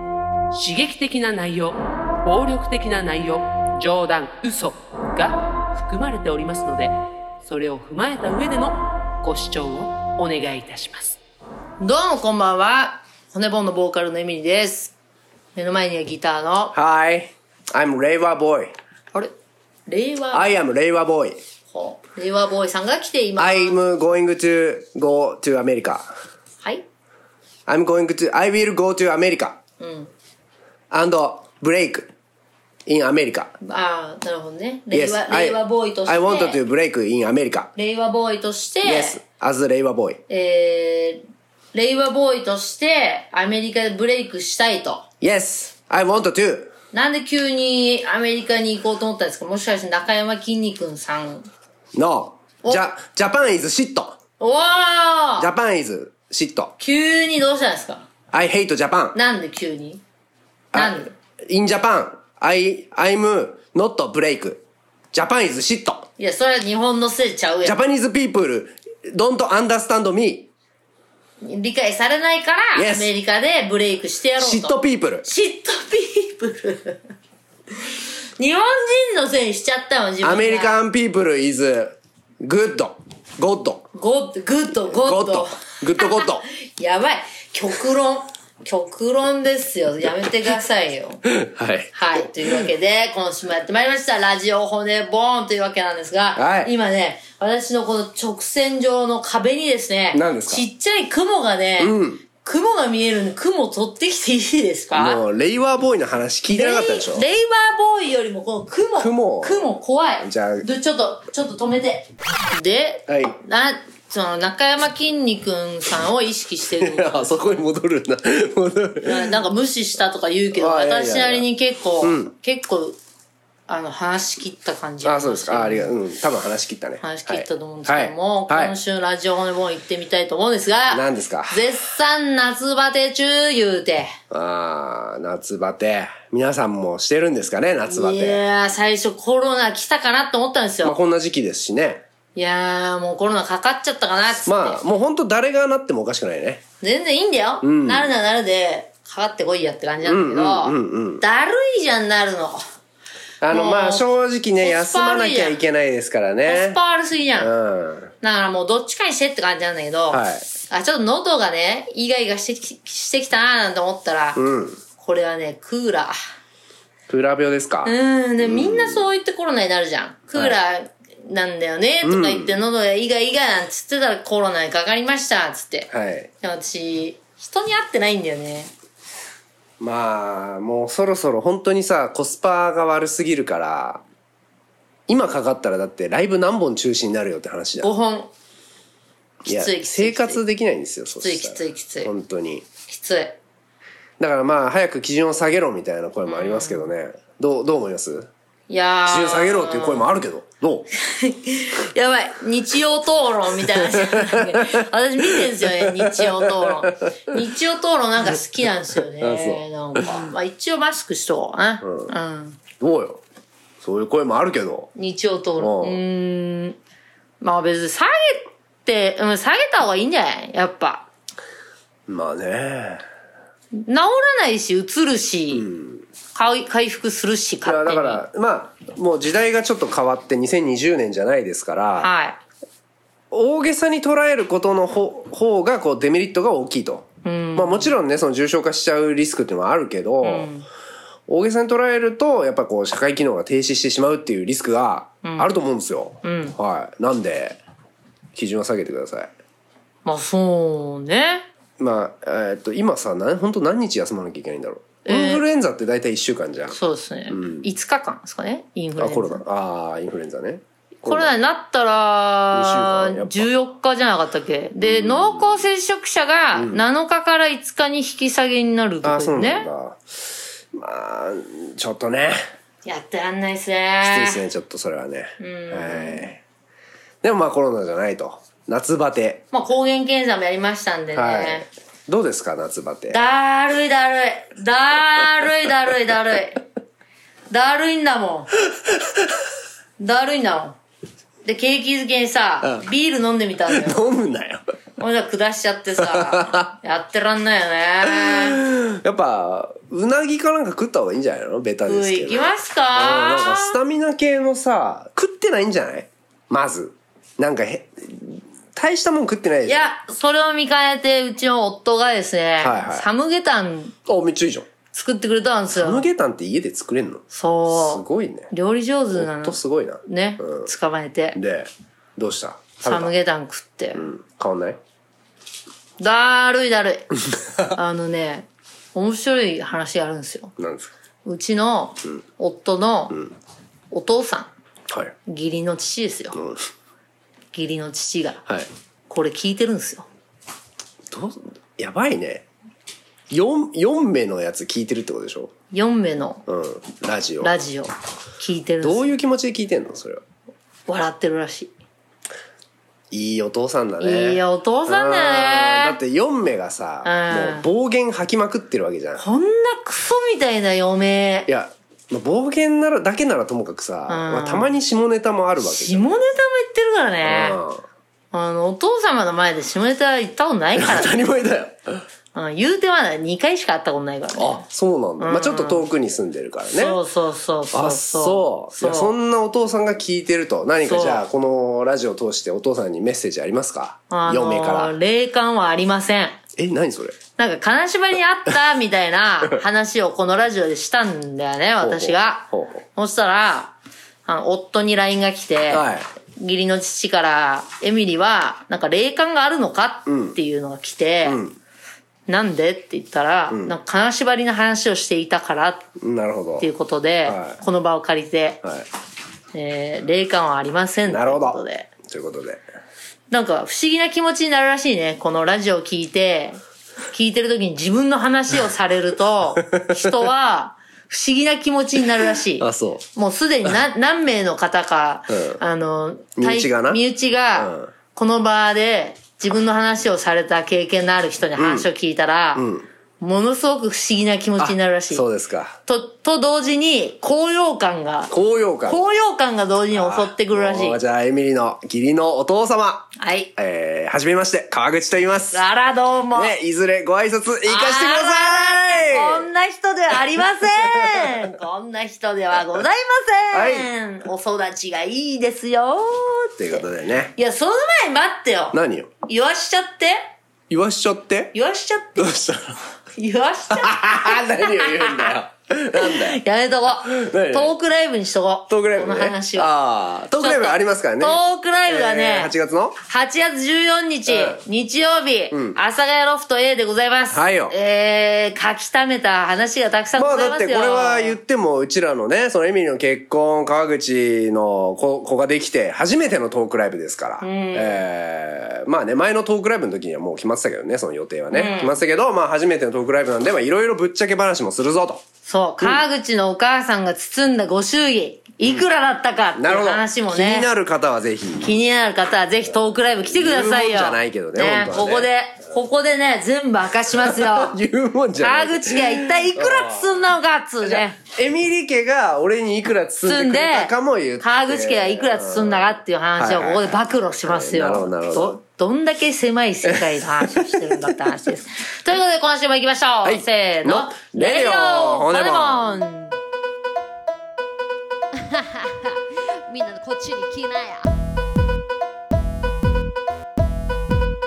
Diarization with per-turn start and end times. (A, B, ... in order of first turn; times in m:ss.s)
0:00.5-0:11.2 A
0:11.8-0:14.9 B
0:15.5-0:16.7 B
0:16.7-0:18.7 C
0:19.9-0:20.5 B
0:20.3-0:21.4 C
0:21.7-0:23.8 B
0:23.4-0:26.1 C
0:27.7-0:29.6 C
0:29.8-0:30.1 B
0:30.9-0:32.1 C
0:32.8-0:33.5 C
0:33.6-0:36.6 B
0:34.9-0:37.7 C
0:37.8-0:39.2 B
0:38.8-0:40.2 C
0:40.3-0:41.2 B
0:41.7-0:45.0 B
0:45.2-0:46.7 C
0:46.9-0:51.5 B
0:51.9-0:54.2 C
0:54.4-0:55.5 B
0:55.4-0:56.7 C
0:56.8-0:58.1 B
0:58.3-0:59.2 C
0:59.1-1:00.0 B
1:00.7-1:06.1 C
1:00.7-1:01.1 B
1:06.2-1:07.8 B
1:07.6-1:10.5 C
1:11.4-1:17.0 B
1:12.7-1:13.1 C
1:14.4-1:15.3 C
1:18.4-1:20.8 B
1:20.2-1:23.9 C
1:23.9-1:31.2 B
1:24.8-1:26.4 C
1:31.2-1:32.7 C
1:31.9-1:45.2 B
1:36.4-1:36.7 C
1:40.1-1:40.6 C
1:41.8-1:42.2 C
1:44.9-1:47.2 C
1:46.5-1:57.6 B
1:49.0-1:50.6 C
1:53.1-1:53.3 C
1:56.8-1:59.3 C
1:59.0-2:03.0 B
2:00.5-2:01.4 C
2:02.0-2:02.3 C
2:03.7-2:06.0 B
2:05.0-2:08.8 C
2:07.0-2:14.1 B
2:10.9-2:11.6 C
2:14.3-2:18.4 C
2:17.9-2:21.0 B
2:20.8-2:22.0 C
2:22.3-2:24.8 B
2:24.4-2:26.6 C
2:26.8-2:32.7 B
2:27.6-2:28.1 C
2:30.0-2:31.2 C
2:33.4-2:36.8 C
2:33.5-2:35.6 B
2:36.4-2:37.5 B
2:37.4-2:38.1 C
2:38.2-2:44.4 B
2:40.1-2:40.5 C
2:44.4-2:44.8 C
2:45.0-2:46.1 B
2:47.1-2:49.0 C
2:47.8-2:55.9 B
2:52.0-2:52.6 C
2:55.9-2:56.3 C
2:56.4-2:58.7 B
2:59.8-3:04.0 C
3:05.1-3:07.9 C
3:07.8-3:08.3 B
3:09.4-3:12.7 C
3:09.4-3:10.4 B
3:11.2-3:12.1 B
3:12.9-3:13.4 B
3:14.2-3:18.3 C
3:16.3-3:16.9 B
3:18.7-3:20.1 B
3:19.0-3:20.9 C
3:21.0-3:32.6 B
3:23.9-3:27.1 C
3:29.2-3:30.2 C
3:31.8-3:32.1 C
3:32.8-3:33.2 C
3:33.8-3:34.9 C
3:35.0-3:36.8 B
3:35.6-3:36.0 C
3:37.4-3:41.0 B
3:42.1-3:43.0 C
3:43.7-3:45.7 B
3:45.5-3:46.0 C
3:46.3-3:48.2 B
3:47.6-3:52.1 C
3:52.0-3:52.4 B
3:53.3-4:00.5 C
3:57.2-3:57.9 B
4:00.2-4:00.6 B
4:01.3-4:07.6 C
4:05.2-4:05.5 B
4:06.2-4:06.6 B
4:08.3-4:09.3 C
4:10.0-4:11.4 B
4:11.8-4:16.8 C
4:15.0-4:15.4 B
4:16.7-4:19.4 B
4:17.3-4:17.7 C
4:19.0-4:21.3 C
4:21.0-4:29.7 B
4:22.5-4:23.5 C
4:24.8-4:25.6 C
4:26.5-4:26.8 C
4:29.0-4:32.4 C
4:32.8-4:34.4 B
4:34.0-4:36.4 C
4:35.4-4:36.3 B
4:37.2-4:39.4 C
4:39.5-4:41.7 B
4:41.1-4:43.2 C
4:43.1-4:46.6 B
4:47.5-4:48.5 B
4:48.7-4:49.3 C
4:50.0-4:50.8 B
4:51.4-4:54.0 B
4:53.7-4:54.6 C
4:55.0-4:58.6 B
4:56.0-4:56.7 C
4:58.0-5:09.9 C
5:01.8-5:03.8 B
5:09.6-5:14.0 B
5:12.6-5:13.1 C
5:14.0-5:14.7 C
5:14.9-5:16.0 B
5:15.7-5:18.5 C
5:17.3-5:21.4 B
5:19.1-5:20.7 C
5:21.3-5:23.1 C
5:22.8-5:24.1 B
5:23.9-5:24.8 C
5:26.0-5:30.5 B
5:30.6-5:30.9 C
5:31.2-5:33.2 B
5:33.9-5:34.5 B
5:35.2-5:36.4 B
5:36.3-5:36.6 C
5:37.5-5:38.4 B
5:39.1-5:40.1 B
5:41.1-5:42.4 C
5:43.3-5:45.5 C
5:45.7-5:46.4 B
5:46.5-5:47.6 C
5:47.4-5:49.1 B
5:48.8-5:50.2 C
5:50.9-5:51.7 B
5:53.1-5:59.2 C
5:54.0-5:56.0 B
5:57.0-5:57.7 B
5:59.2-6:01.5 B
6:01.5-6:06.3 C
6:04.1-6:04.7 B
6:05.6-6:07.6 B
6:07.2-6:07.8 C
6:08.3-6:11.1 B
6:10.8-6:12.0 C
6:12.3-6:14.6 B
6:14.4-6:17.0 C
6:15.2-6:15.8 B
6:16.7-6:19.1 B
6:17.7-6:25.0 C
6:20.8-6:21.2 B
6:24.1-6:26.4 B
6:26.6-6:27.2 C
6:27.4-6:41.4 B
6:31.8-6:32.8 C
6:35.7-6:36.1 C
6:40.1-6:40.4 C
6:41.2-6:41.6 C
6:42.3-6:45.9 B
6:46.0-6:46.7 C
6:46.6-6:48.6 B
6:47.2-6:47.6 C
6:49.5-6:51.9 B
6:51.1-6:52.6 C
6:53.3-6:56.6 B
6:57.1-7:12.6 B
6:59.6-7:00.1 C
7:02.6-7:03.0 C
7:05.3-7:05.6 C
7:06.4-7:07.0 C
7:07.6-7:07.9 C
7:11.6-7:11.9 C
7:12.5-7:12.8 C
7:13.2-7:15.2 B
7:14.6-7:15.8 C
7:15.8-7:18.3 B
7:18.3-7:19.0 C
7:18.8-7:21.0 B
7:19.9-7:25.6 C
7:23.2-7:23.5 B
7:25.5-7:26.5 B
7:26.3-7:29.5 C
7:27.7-7:36.8 B
7:30.6-7:31.5 C
7:33.5-7:33.9 C
7:36.6-7:37.3 C
7:37.4-7:40.2 B
7:38.7-7:39.1 C
7:40.7-7:41.5 C
7:41.5-7:42.3 B
7:42.2-7:42.9 C
7:43.2-7:45.4 B
7:43.7-7:46.4 C
7:45.9-7:49.7 B
7:47.0-7:47.7 C
7:48.7-7:53.0 C
7:50.3-8:01.4 B
7:54.3-7:54.6 C
7:55.5-7:55.8 C
7:57.3-7:57.7 C
8:00.2-8:15.2 C
8:07.4-8:08.0 B
8:11.5-8:12.0 B
8:15.4-8:20.7 B
8:19.6-8:21.7 C
8:21.6-8:27.8 B
8:23.2-8:25.3 C
8:27.2-8:30.2 C
8:28.4-8:31.2 B
8:30.8-8:38.6 C
8:33.2-8:46.3 B
8:39.8-8:41.2 C
8:43.2-8:46.0 C
8:48.3-8:51.1 D